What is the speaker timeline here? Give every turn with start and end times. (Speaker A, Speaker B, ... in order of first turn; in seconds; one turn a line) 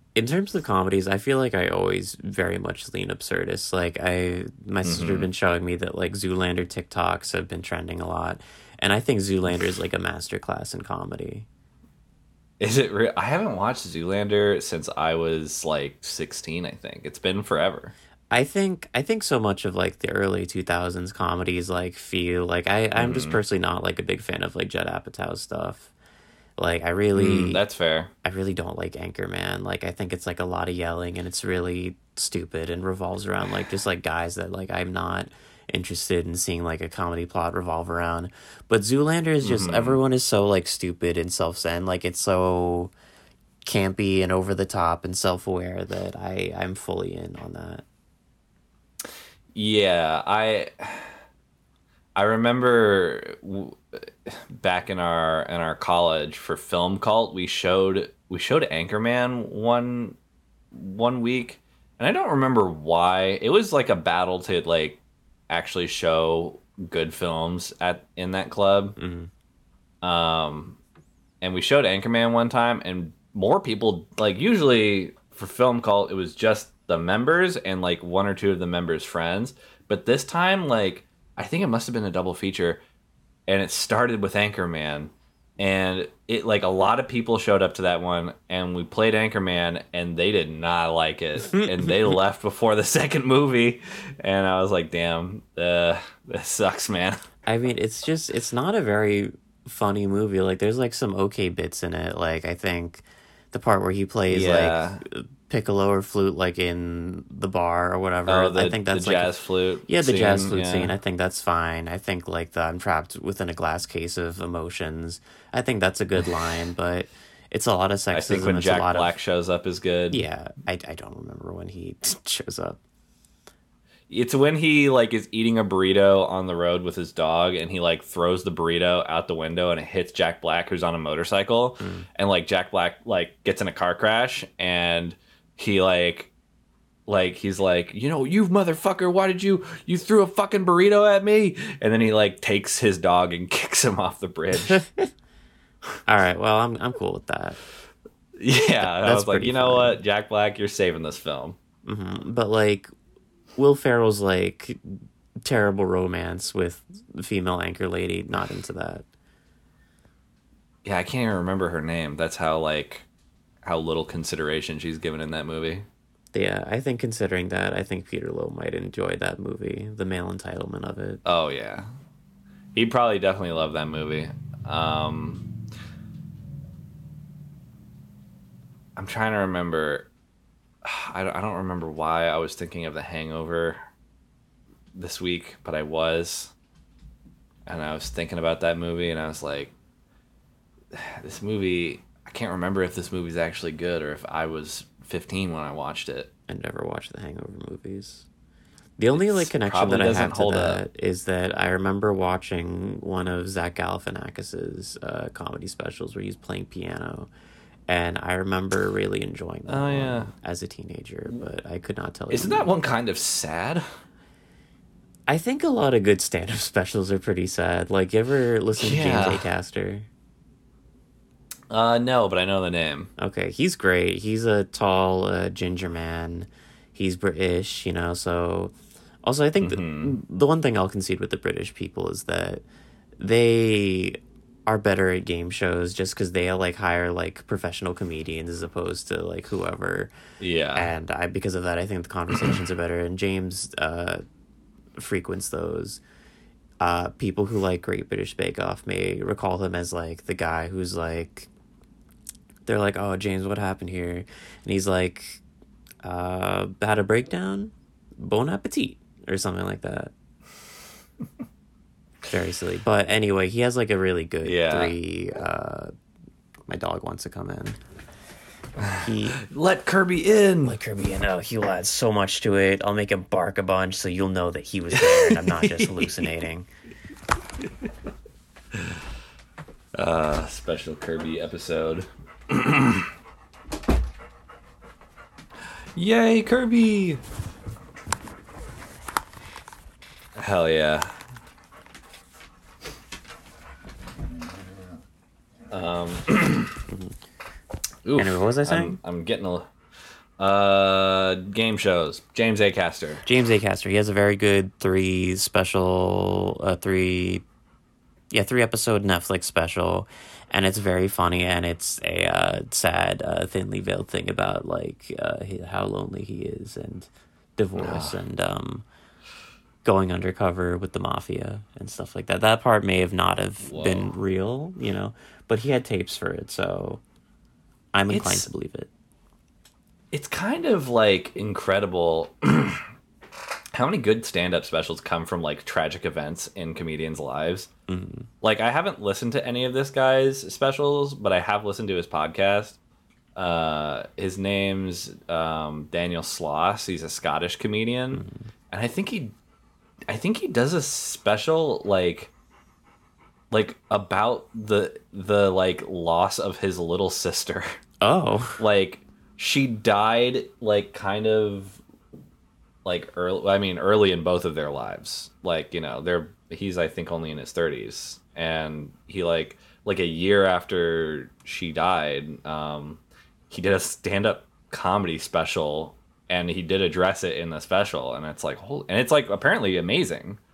Speaker A: 0.1-11.4
Speaker B: 4.8-5.3
Speaker B: 12.6-17.9
Speaker A: 18.3-25.9
Speaker B: 22.9-23.4
Speaker A: 26.6-27.6
Speaker B: 27.1-28.1
Speaker A: 28.2-42.9
Speaker B: 39.4-40.0
Speaker A: 43.6-47.8
Speaker B: 49.5-51.1
Speaker B: 52.1-60.1
Speaker B: 60.7-69.0
Speaker A: 69.0-69.3
Speaker B: 70.0-70.8
Speaker B: 71.4-82.8
Speaker B: 83.5-97.2
Speaker A: 97.5-109.3
Speaker B: 104.3-105.0
Speaker B: 108.3-110.9
Speaker A: 109.9-119.1
Speaker B: 118.1-120.2
Speaker A: 120.1-122.8
Speaker B: 124.1-136.3
Speaker A: 131.8-132.1
Speaker B: 137.1-144.8
Speaker A: 146.1-147.6
Speaker B: 148.4-151.6
Speaker A: 148.8-150.0
Speaker A: 151.8-152.9
Speaker A: 153.6-159.1
Speaker B: 160.8-163.0
Speaker B: 163.6-165.8
Speaker A: 166.3-171.2
Speaker B: 171.2-171.9
Speaker B: 172.7-175.4
Speaker B: 178.9-180.1
Speaker B: 180.8-183.8
Speaker B: 184.9-186.5
Speaker B: 187.7-189.7
Speaker B: 190.9-196.3
Speaker A: 196.5-198.2
Speaker A: 199.0-207.3
Speaker B: 199.1-200.8
Speaker A: 207.9-212.7
Speaker B: 209.7-210.3
Speaker B: 212.3-213.8
Speaker A: 215.3-220.1
Speaker B: 218.8-219.4
Speaker B: 221.7-223.1
Speaker A: 223.2-232.6
Speaker B: 229.6-230.1
Speaker A: 233.2-240.1
Speaker B: 240.4-240.9
Speaker A: 240.7-244.2
Speaker A: 245.0-246.0
Speaker A: 246.8-251.5
Speaker A: 252.7-255.4
Speaker A: 256.0-260.1
Speaker A: 262.3-265.9
Speaker B: 264.4-264.9
Speaker A: 266.7-267.8
Speaker A: 268.9-269.4
Speaker B: 269.4-270.8
Speaker A: 270.6-276.7
Speaker B: 274.9-276.4
Speaker B: 279.9-283.1
Speaker B: 285.9-287.2
Speaker B: 290.4-291.2
Speaker B: 295.7-296.8
Speaker A: 296.9-297.2
Speaker B: 298.0-299.7
Speaker A: 298.1-299.0
Speaker B: 300.4-303.2
Speaker A: 303.2-307.4
Speaker A: 308.3-318.8
Speaker B: 317.8-318.2
Speaker A: 319.8-327.0
Speaker B: 323.6-324.1
Speaker A: 327.9-328.9
Speaker B: 328.1-328.5
Speaker B: 330.1-332.9
Speaker B: 333.7-337.7
Speaker A: 337.9-338.3
Speaker B: 338.4-342.8
Speaker B: 343.4-349.3
Speaker A: 348.1-348.5
Speaker B: 350.1-352.3
Speaker B: 353.5-357.8
Speaker A: 358.0-358.6
Speaker B: 358.6-361.8
Speaker B: 362.8-380.4